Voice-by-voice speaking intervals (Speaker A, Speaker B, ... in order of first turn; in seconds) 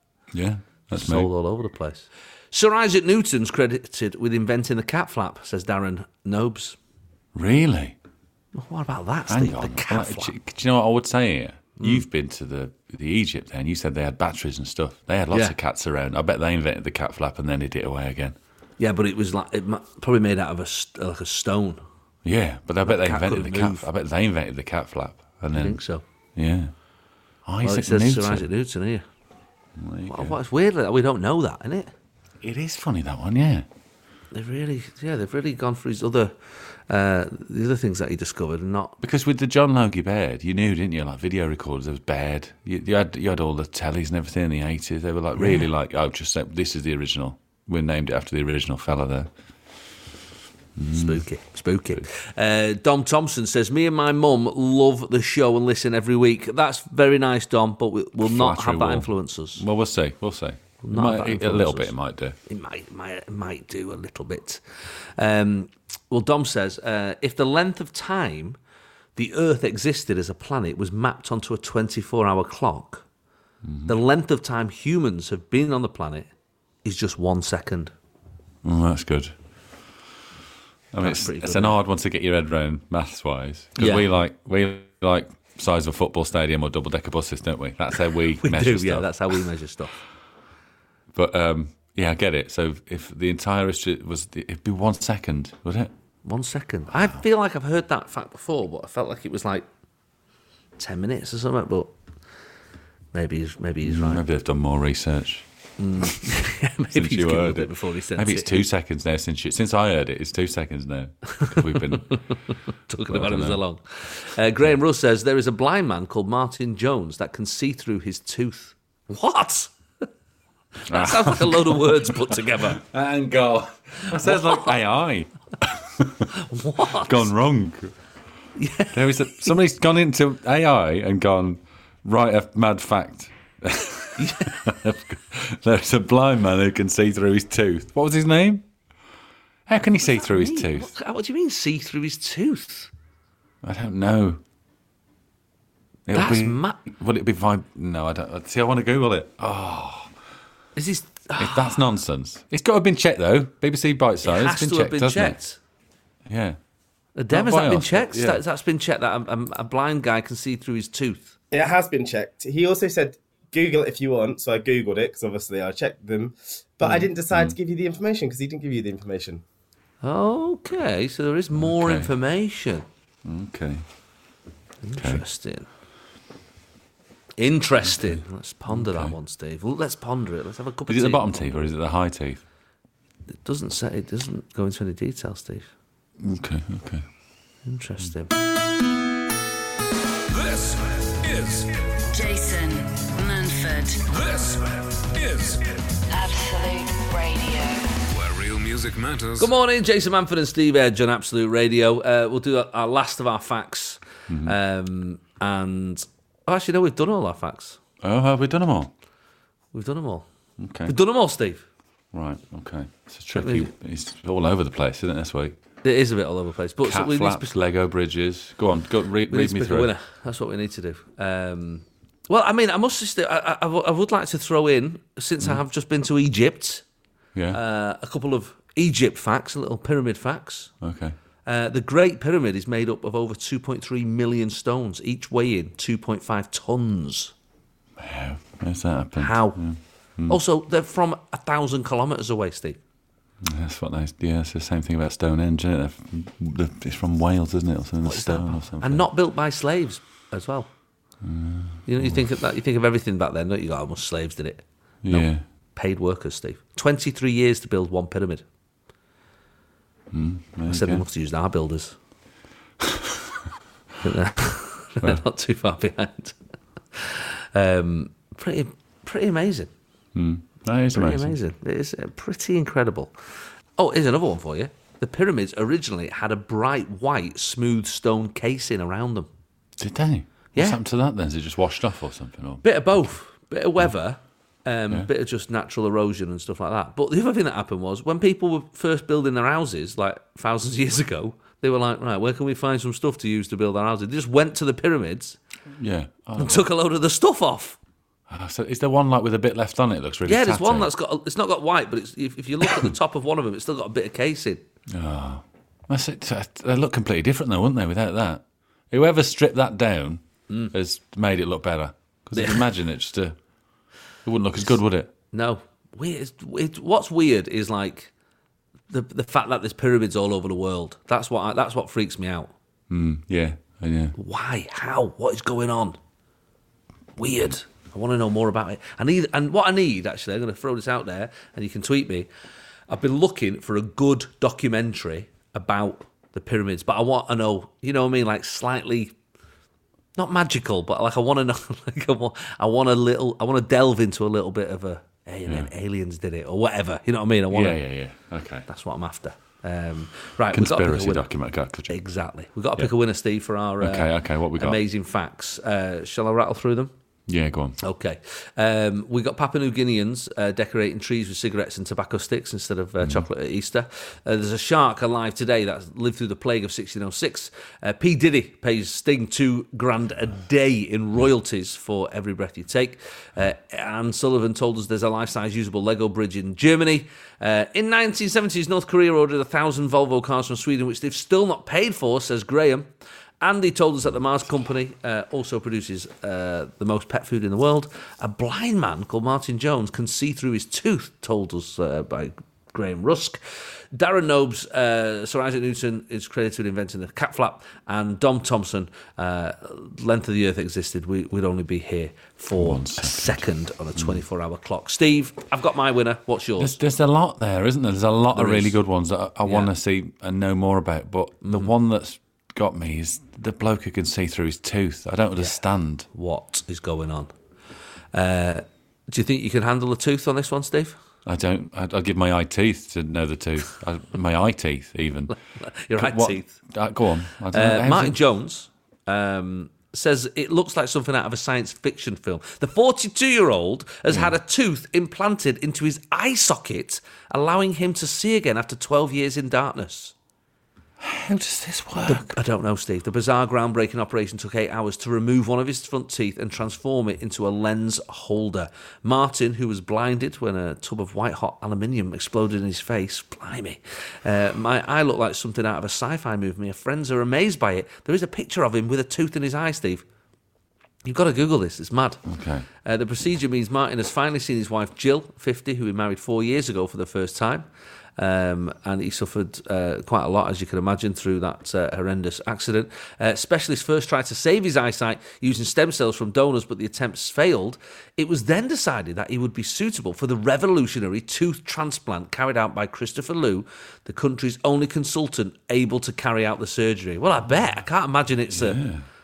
Speaker A: 0.3-1.3, 7.3-8.0, 9.3-18.4, 22.2-25.8, 26.4-26.7, 27.4-28.5, 29.8-30.4, 32.4-33.7, 39.0-49.3, 50.8-51.2, 58.2-62.4, 73.6-73.9, 78.6-79.3, 80.9-89.1, 91.1-95.9, 103.8-105.5, 106.0-106.4, 106.9-112.2, 113.1-113.6, 120.9-126.3, 126.9-127.9, 128.9-138.7, 139.7-140.9, 143.6-144.4, 146.1-150.1, 151.4-155.4, 156.3-156.6, 157.3-158.4, 171.5-172.1, 173.2-173.8, 175.0-175.2, 178.0-179.1, 180.9-182.4, 186.2-187.0, 204.3-204.6, 208.0-208.9, 210.6-210.9, 212.1-215.6, 216.8-219.9, 230.8-231.2, 238.0-240.4, 243.4-249.1, 251.2-252.2, 255.0-255.4, 260.1-261.0, 262.8-263.2, 270.1-271.4, 279.8-282.6, 295.7-296.6, 298.3-300.9, 302.6-302.9, 304.9-313.4, 314.2-315.1, 322.9-324.1, 347.5-348.7, 350.5-352.0, 353.8-354.8, 357.3-357.8, 363.0-363.3, 402.6-404.2, 406.6-416.1, 421.2-425.3, 425.9-428.2, 441.0-442.4, 462.2-462.6, 488.5-489.0
Speaker B: 0.9-6.8, 8.5-10.3, 11.8-12.1, 15.3-15.6, 18.8-21.8, 22.8-23.9, 25.5-26.0, 27.6-29.0, 30.1-31.9, 34.3-39.0, 45.4-45.7, 50.9-59.6, 60.8-61.9, 62.5-68.6, 69.2-73.0, 73.8-76.3, 76.8-77.9, 81.0-81.8, 83.8-84.1, 88.3-90.0, 96.2-99.7, 100.8-101.9, 103.1-104.2, 105.8-108.6, 111.3-119.7, 120.8-122.8, 124.0-124.7, 126.3-127.3, 128.6-129.6, 134.2-134.6, 140.0-142.9, 146.1-146.8, 150.8-151.9, 154.2-155.6, 157.2-161.3, 170.0-172.8, 174.8-175.7, 177.4-181.4, 183.4-185.7, 187.6-188.3, 199.4-207.8, 209.7-210.2, 210.8-211.7, 213.3-213.7, 215.8-217.5, 219.3-226.8, 227.5-230.7, 231.4-237.3, 239.2-239.6, 240.3-242.8, 248.0-250.7, 251.8-258.4, 260.7-261.9, 264.0-266.4, 266.9-269.7, 270.9-273.1, 273.8-279.3, 280.5-280.8, 282.6-295.4, 296.4-297.8, 300.2-304.6, 312.3-312.6, 315.3-318.1, 318.9-322.5, 324.1-326.0, 327.2-332.3, 332.9-339.1, 340.1-347.8, 348.7-351.3, 351.9-356.9, 357.8-382.9, 383.4-406.8, 408.3-408.8, 409.4-409.7, 411.4-411.7, 416.1-417.3, 418.1-421.0, 425.3-426.5, 427.5-440.1, 442.1-460.0, 461.0-462.2, 462.8-488.8
Speaker C: 161.5-169.4
Speaker D: 190.3-192.0, 194.1-196.0, 198.1-199.5
Speaker E: 192.1-194.0, 196.1-197.9